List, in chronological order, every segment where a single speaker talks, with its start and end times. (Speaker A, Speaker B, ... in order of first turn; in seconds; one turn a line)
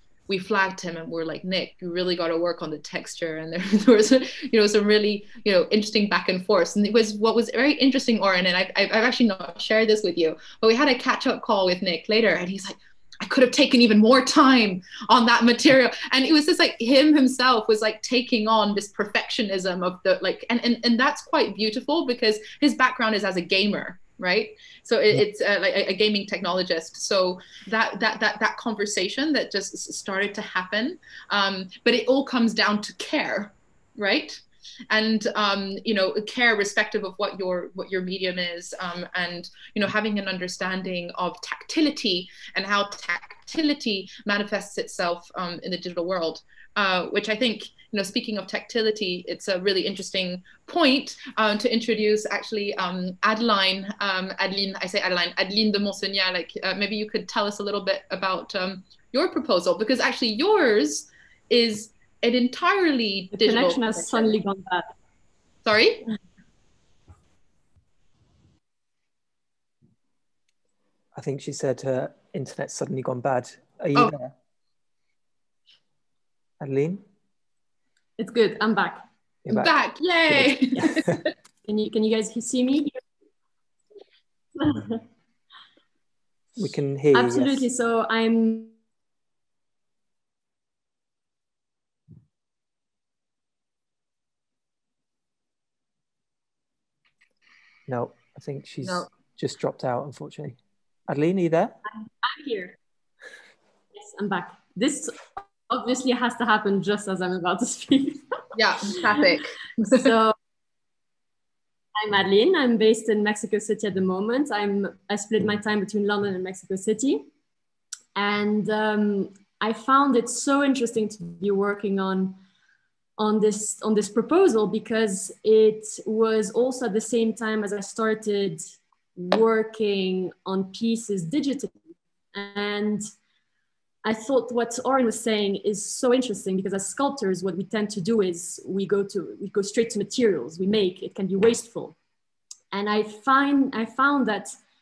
Speaker A: 0.3-64.4
Speaker B: 63.3-64.9
Speaker A: 65.7-66.1
Speaker C: 71.2-74.3
Speaker C: 76.6-77.0
Speaker B: 78.2-79.0
Speaker A: 79.5-81.2
Speaker C: 80.3-81.1
Speaker B: 81.7-83.0
Speaker B: 84.6-85.0
Speaker C: 86.6-87.7
Speaker B: 87.1-88.8
Speaker C: 97.9-101.8
Speaker B: 102.2-102.8
Speaker B: 103.9-108.2
Speaker A: 108.6-110.1
Speaker B: 108.9-109.3
Speaker B: 109.9-110.3
Speaker B: 112.0-117.3
Speaker B: 118.2-122.4
Speaker B: 123.2-128.6
Speaker B: 129.2-131.7
Speaker B: 132.3-133.0
Speaker B: 134.0-142.0
Speaker B: 142.7-144.6